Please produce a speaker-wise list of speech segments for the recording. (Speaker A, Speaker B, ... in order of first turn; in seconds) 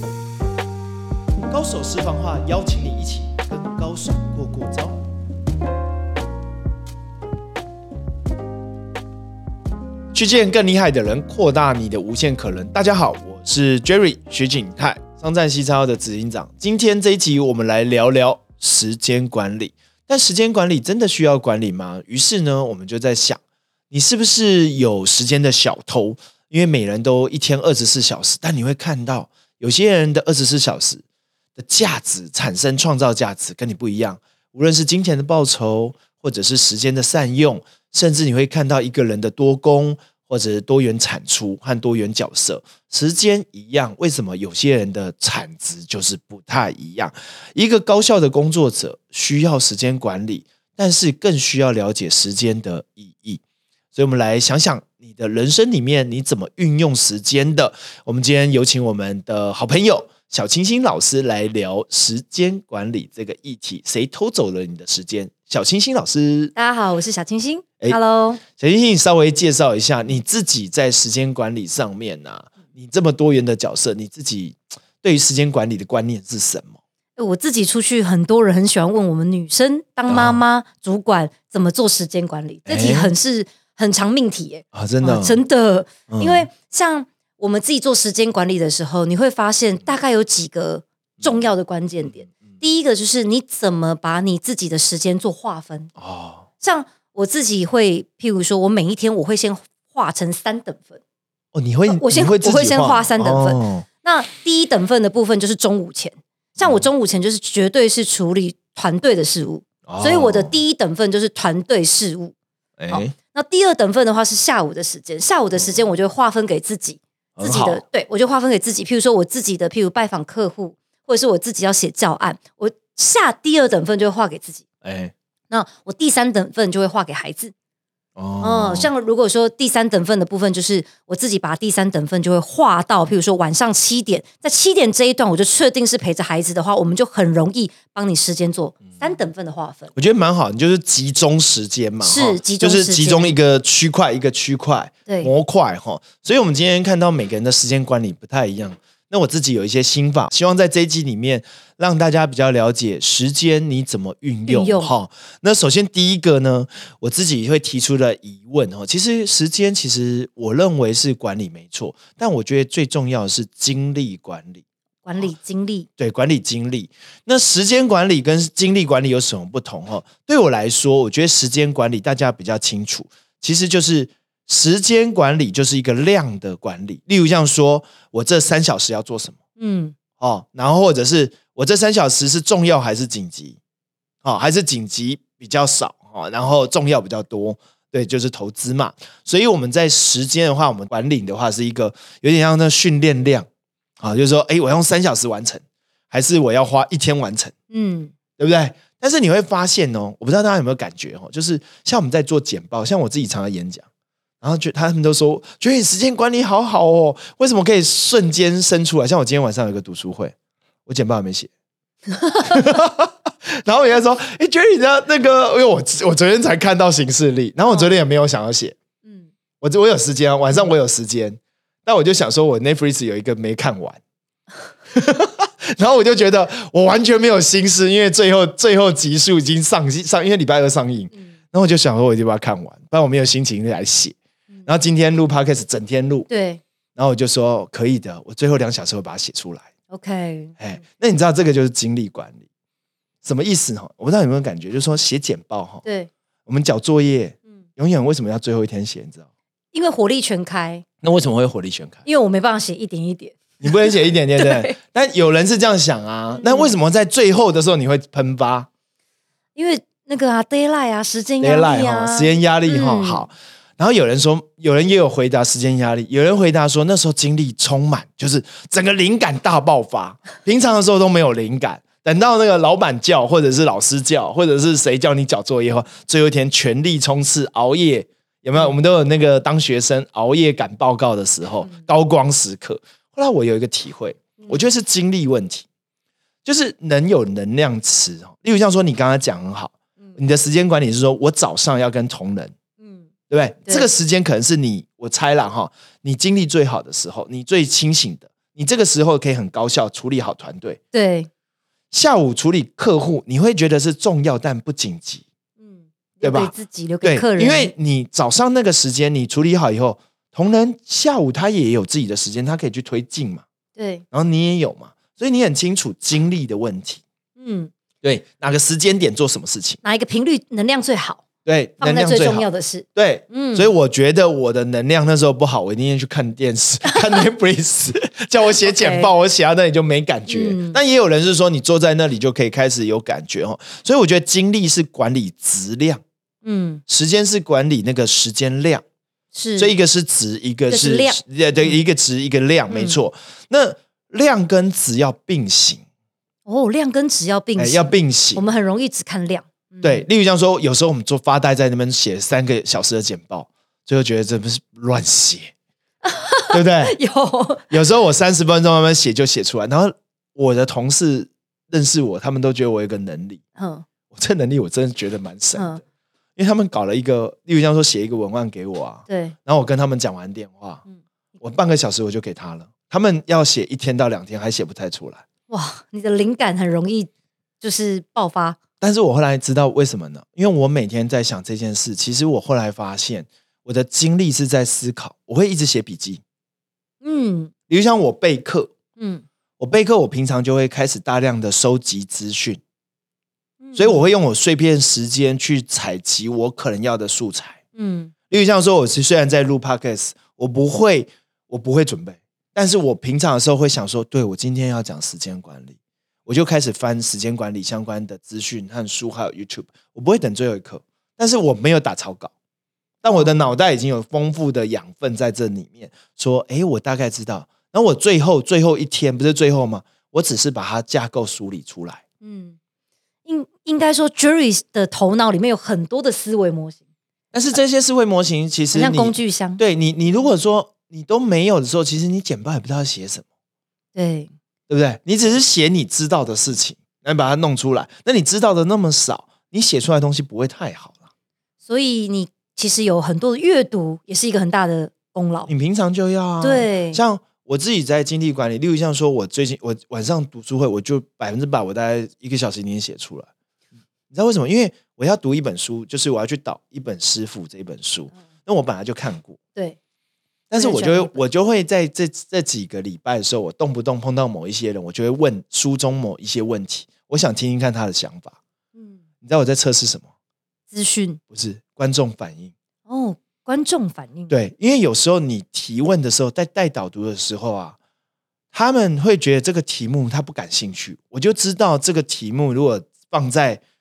Speaker A: 1.5-5.0, 10.1-31.0, 31.6-53.4, 53.9-66.5, 68.5-76.8, 80.1-80.4, 82.7-83.1, 84.7-85.4, 86.1-86.5, 91.2-91.5, 96.0-96.5, 101.5-103.8, 106.6-106.8, 109.9-110.6, 112.8-113.1, 117.4-117.8, 124.8-125.1, 128.2-128.9, 139.9-164.6, 166.0-179.4, 180.2-183.6, 184.2-193.5, 194.0-197.5, 198.4-203.8, 204.4-210.3, 210.8-211.5, 212.4-218.8, 219.6-224.0, 224.9-236.3, 236.9-239.7, 240.6-242.4, 243.2-245.8, 246.5-249.2, 251.0-252.0, 253.6-258.7, 261.4-285.6, 286.4-292.5, 293.3-300.8, 301.9-305.2, 306.2-313.4, 314.1-317.0, 318.0-319.8, 321.4-336.0, 336.9-338.8, 339.6-345.8, 347.6-348.4, 349.8-355.5, 356.5-356.9, 357.7-363.4, 364.1-365.8, 366.4-370.8, 371.4-375.2, 378.8-386.2, 387.7-388.7, 389.6-392.6, 393.7-397.6, 398.3-412.3, 413.0-422.0, 427.3-433.2, 434.7-441.0, 445.5-453.3, 454.1-459.4, 460.5-468.4, 469.2-470.1, 471.3-472.5, 474.3-477.8, 478.5-483.6
Speaker B: 66.5-68.4, 77.2-95.9, 96.6-101.0, 101.9-112.3, 112.9-124.6, 125.5-127.5, 128.4-139.9, 142.0-143.3, 154.5-154.9, 165.0-165.9, 179.6-179.9, 197.7-198.1, 212.2-212.6, 236.3-236.6, 239.9-240.6, 249.7-250.8, 252.0-254.8, 256.4-256.7, 259.6-263.3, 284.4-284.6, 292.8-293.1, 300.9-301.3, 305.6-307.7, 313.8-314.0, 317.4-317.7, 319.8-321.2, 321.8-323.7, 328.6-329.1, 330.3-330.8, 336.4-336.8, 339.3-339.7, 340.7-341.8, 342.7-343.0, 346.4-350.1, 356.0-357.7, 363.6-363.9, 369.1-369.3, 375.5-377.1, 377.6-378.6, 387.0-387.5, 389.0-389.2, 393.6-394.1, 397.8-398.1, 422.2-422.6, 423.2-426.8, 428.7-429.6, 433.9-434.3, 441.6-445.5, 446.4-447.0, 460.5-461.2, 468.7-469.0, 470.7-471.2, 472.9-474.3